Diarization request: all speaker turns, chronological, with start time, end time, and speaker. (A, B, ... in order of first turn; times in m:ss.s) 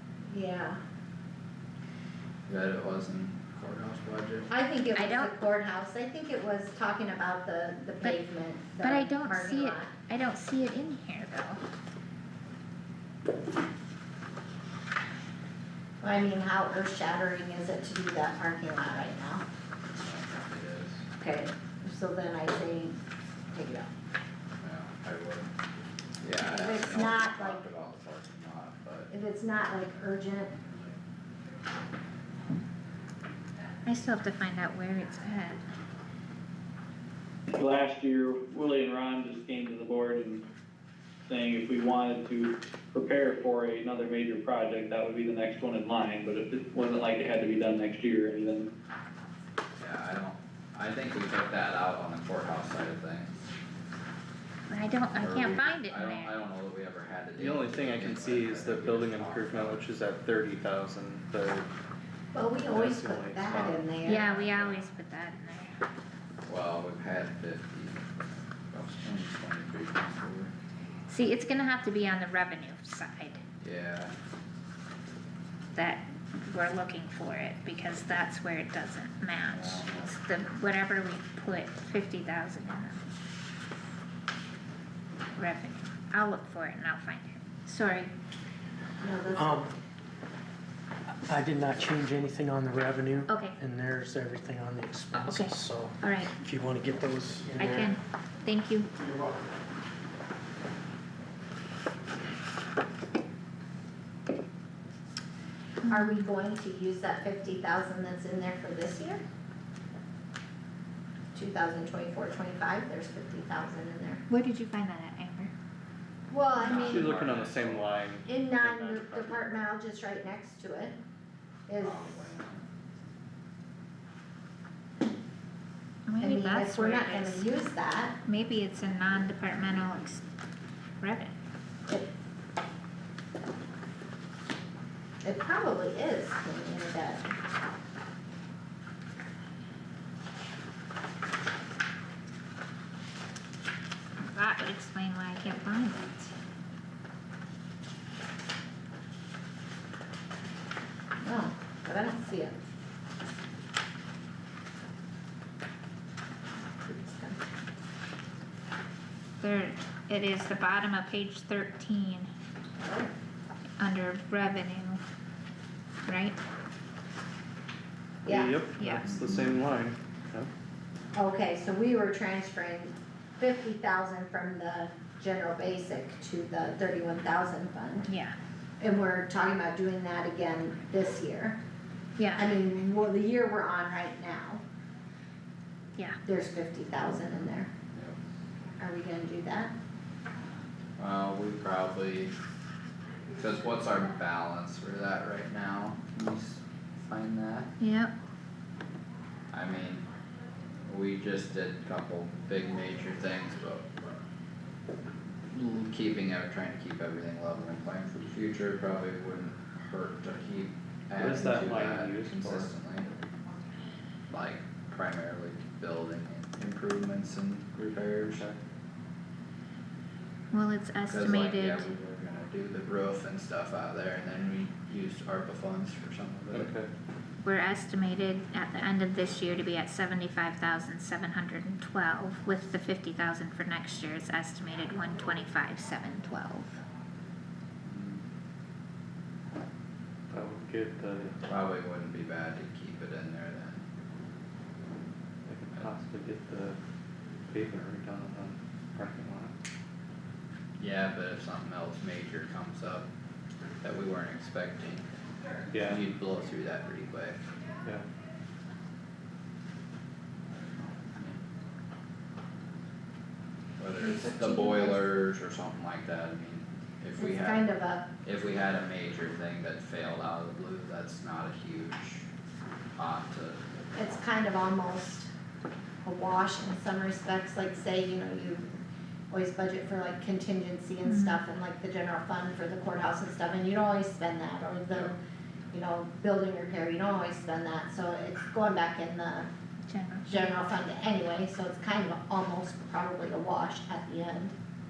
0:00.3-0:00.8 A
0:02.5-0:04.5 B
0:04.5-0:09.9 A
0:04.9-0:05.3 C
0:08.8-0:11.6 C
0:16.0-0:19.4 A
0:19.9-0:21.1 B
0:21.2-0:23.0 A
0:23.5-0:23.9 A
0:24.6-0:25.5 B
0:26.2-0:29.1 B
0:26.4-0:27.6 A
0:29.1-0:30.5 A
0:33.8-0:35.6 C
0:37.5-0:40.4 D
0:41.3-0:48.7 D
0:49.8-0:53.3 B
0:54.7-0:56.3 C
0:55.1-0:59.8 B
0:57.4-1:01.7 E
1:02.3-1:04.4 A
1:02.7-1:04.8 E
1:04.0-1:05.7 C
1:06.4-1:10.5 B
1:11.1-1:13.4 C
1:13.6-1:14.1 B
1:15.7-1:23.0 C
1:19.4-1:20.1 B
1:25.3-1:28.1 C
1:29.0-1:29.7 A
1:29.4-1:29.7 F
1:31.3-1:37.9 F
1:33.3-1:33.6 C
1:35.1-1:36.3 C
1:37.6-1:38.9 C
1:45.8-1:46.3 C
1:45.9-1:49.2 A
1:51.3-1:54.2 A
1:54.3-1:55.5 C
1:56.3-1:57.2 A
1:56.5-1:57.9 B
1:56.7-1:59.4 E
1:58.2-2:01.0 A
2:01.7-2:02.1 A
2:01.8-2:02.6 B
2:06.0-2:07.5 C
2:06.2-2:08.2 A
2:08.2-2:10.2 C
2:11.0-2:11.3 C
2:15.2-2:17.2 A
2:24.2-2:26.3 C
2:31.2-2:32.5 A
2:36.8-2:37.4 A
2:39.4-2:42.3 C
2:42.8-2:43.1 A
2:43.8-2:45.0 C
2:46.0-2:46.4 C
2:48.2-2:48.6 A
2:48.2-2:50.5 E
2:48.8-2:49.1 C
2:51.1-2:58.1 A
2:58.1-2:58.4 C
2:58.8-3:01.6 A
3:02.2-3:02.5 C
3:02.4-3:04.6 A
3:06.2-3:07.7 A
3:08.8-3:09.7 A
3:11.0-3:12.3 B
3:13.4-3:17.7 B
3:17.8-3:18.1 C
3:19.5-3:20.0 B
3:20.8-3:23.8 B
3:25.5-3:33.1 B
3:31.2-3:32.7 E
3:34.3-3:38.4 B
3:40.5-3:41.9 C
3:41.0-3:46.7 B
3:46.5-3:46.9 E
3:47.4-3:56.8 C
3:57.8-3:58.2 B
4:00.3-4:01.4 E
4:01.5-4:03.8 B
4:05.5-4:06.8 E
4:07.5-4:09.5 E
4:10.8-4:13.0 B
4:13.8-4:15.1 B
4:15.7-4:16.0 E
4:15.8-4:17.4 B
4:20.5-4:21.4 B
4:23.8-4:27.7 B
4:24.0-4:25.0 A
4:27.2-4:28.1 A
4:28.2-4:32.2 B
4:33.0-4:33.6 B
4:33.9-4:35.3 A
4:36.0-4:38.7 A
4:39.3-4:45.1 A
4:41.0-4:41.4 C
4:45.7-4:49.5 A
4:49.9-4:50.5 C
4:50.3-4:54.5 A